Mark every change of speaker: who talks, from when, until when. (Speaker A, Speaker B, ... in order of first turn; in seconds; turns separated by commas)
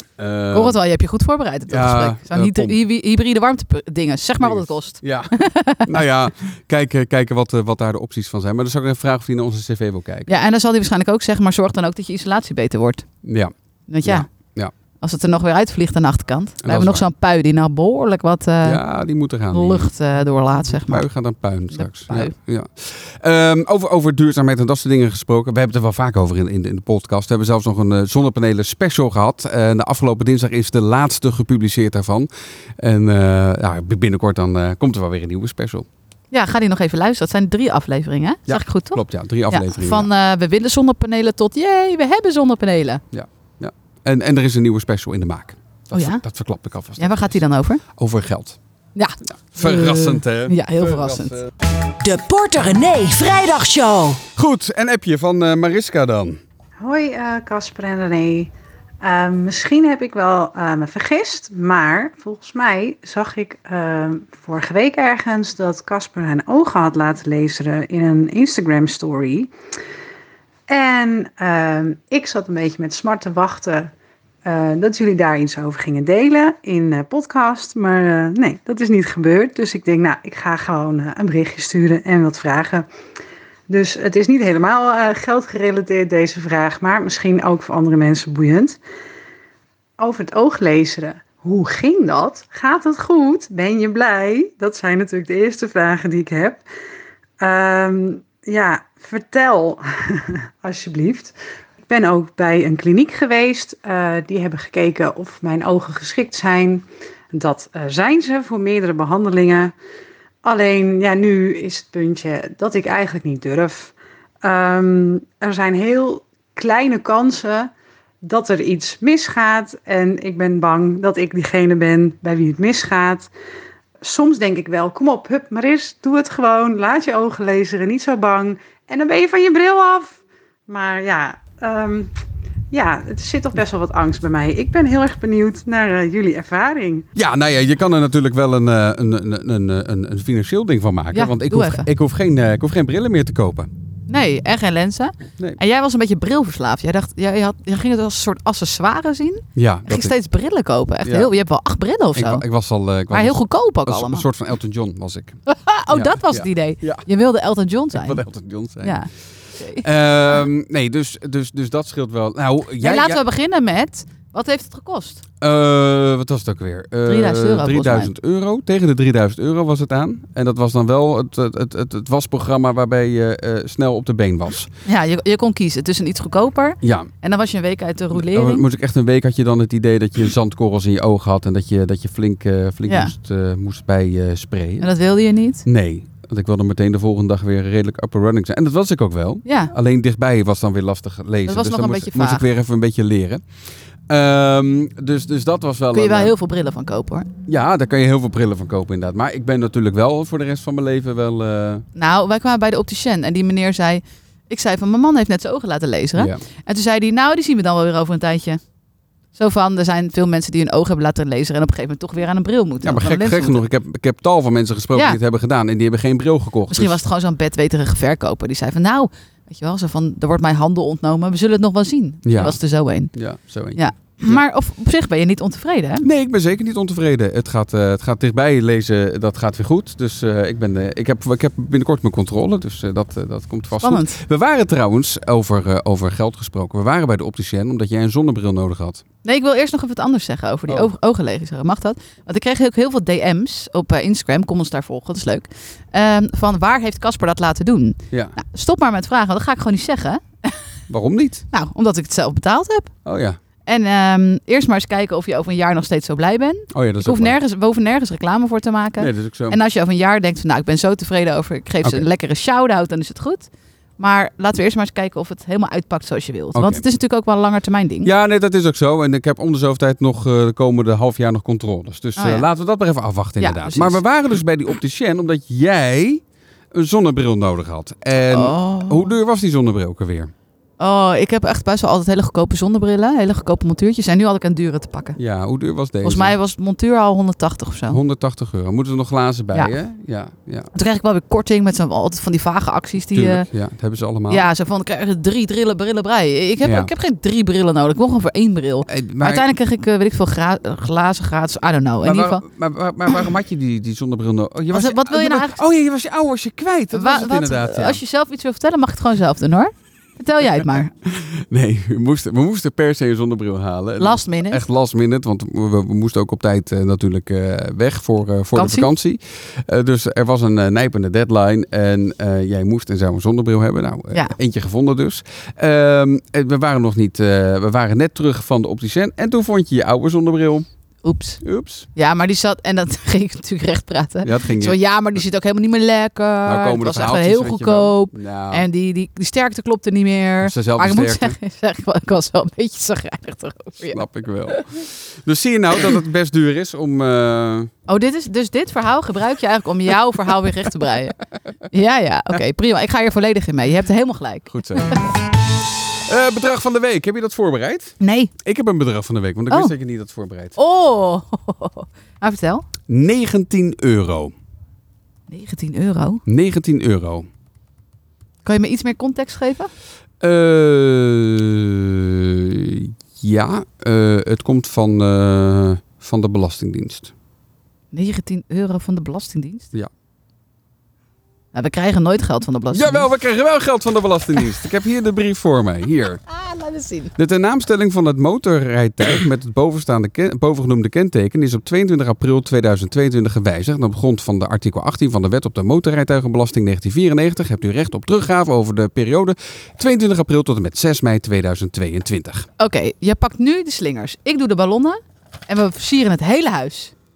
Speaker A: 0.2-0.8, Speaker B: 0.5-6.0, Speaker A: 1.7-2.8, Speaker A: 4.4-10.3, Speaker B: 10.3-13.1, Speaker A: 13.2-13.5, Speaker B: 13.9-14.3, Speaker A: 14.0-14.7, Speaker B: 15.0-18.8, Speaker A: 16.6-17.0, Speaker A: 18.6-19.9, Speaker B: 19.5-21.0, Speaker A: 20.7-35.9, Speaker B: 21.7-22.3, Speaker B: 36.3-43.0, Speaker A: 38.5-40.1, Speaker A: 43.1-47.4, Speaker B: 45.9-46.2, Speaker B: 47.0-47.8, Speaker A: 47.9-48.6, Speaker B: 48.9-51.4, Speaker A: 49.3-51.5, Speaker B: 52.0-54.2, Speaker A: 54.4-56.4, Speaker C: 56.8-69.5, Speaker C: 70.7-82.9, Speaker C: 83.7-88.8, Speaker C: 90.0-96.6, Speaker C: 97.4-101.3, Speaker C: 101.9-109.7, Speaker C: 110.4-117.7, Speaker C: 118.2-123.3, Speaker C: 124.0-132.1, Speaker C: 132.7-137.1, Speaker A: 137.1-143.7, Speaker B: 141.1-141.9, Speaker B: 144.1-152.4, Speaker A: 149.6-150.1, Speaker A: 151.0-151.3, Speaker A: 152.1-155.4, Speaker B: 153.1-154.2, Speaker B: 155.5-158.2, Speaker A: 155.9-157.0, Speaker A: 157.9-159.0, Speaker B: 158.8-159.9, Speaker A: 159.8-163.2, Speaker B: 162.8-165.2, Speaker A: 165.4-174.7, Speaker B: 167.1-168.1, Speaker B: 174.8-178.6, Speaker A: 176.8-177.1, Speaker A: 178.1-184.9, Speaker B: 182.9-183.1, Speaker B: 184.8-185.6, Speaker A: 185.6-193.4, Speaker B: 189.4-189.7, Speaker B: 191.5-192.4, Speaker A: 194.1-196.3, Speaker B: 195.9-197.3, Speaker A: 197.5-201.8, Speaker B: 202.0-208.6, Speaker A: 206.2-206.4, Speaker B: 209.4-213.6, Speaker A: 212.8-217.0, Speaker B: 216.7-223.1, Speaker A: 222.2-222.6, Speaker A: 223.1-224.4, Speaker B: 223.8-226.1, Speaker A: 226.0-239.0, Speaker B: 233.8-234.2, Speaker B: 239.2-250.6, Speaker A: 250.9-251.4, Speaker B: 251.5-252.9, Speaker A: 253.1-253.4, Speaker B: 253.7-263.5, Speaker A: 256.7-257.4, Speaker A: 259.0-259.6, Speaker B: 264.0-268.1, Speaker A: 266.5-266.8, Speaker A: 268.0-276.2, Speaker B: 272.2-272.5, Speaker B: 273.4-274.0, Speaker A: 276.7-280.3, Speaker B: 278.3-279.1, Speaker B: 280.8-285.2, Speaker A: 285.2-286.3, Speaker B: 286.0-288.0, Speaker A: 287.9-290.7, Speaker B: 290.7-293.5, Speaker A: 293.1-294.5, Speaker B: 294.3-302.4, Speaker A: 296.6-296.9, Speaker A: 298.9-299.4, Speaker A: 302.0-308.0, Speaker B: 304.7-305.6, Speaker B: 306.9-310.9, Speaker A: 311.1-330.7, Speaker B: 314.0-314.6, Speaker B: 318.5-318.9, Speaker B: 331.0-331.4, Speaker A: 331.4-331.9, Speaker B: 332.0-344.0, Speaker A: 334.2-334.8, Speaker A: 336.4-338.6, Speaker A: 340.4-341.4, Speaker A: 343.8-347.7, Speaker B: 347.9-351.2, Speaker B: 351.7-355.0, Speaker A: 354.5-355.1, Speaker A: 356.1-360.6, Speaker B: 358.0-358.3, Speaker B: 360.6-362.7, Speaker A: 362.9-364.3, Speaker B: 365.3-366.2, Speaker A: 366.2-367.3, Speaker B: 368.4-369.7, Speaker A: 370.2-377.1, Speaker B: 377.9-379.7, Speaker B: 381.5-383.1, Speaker A: 382.7-386.2, Speaker B: 386.3-387.1, Speaker A: 387.2-402.5, Speaker B: 402.6-406.9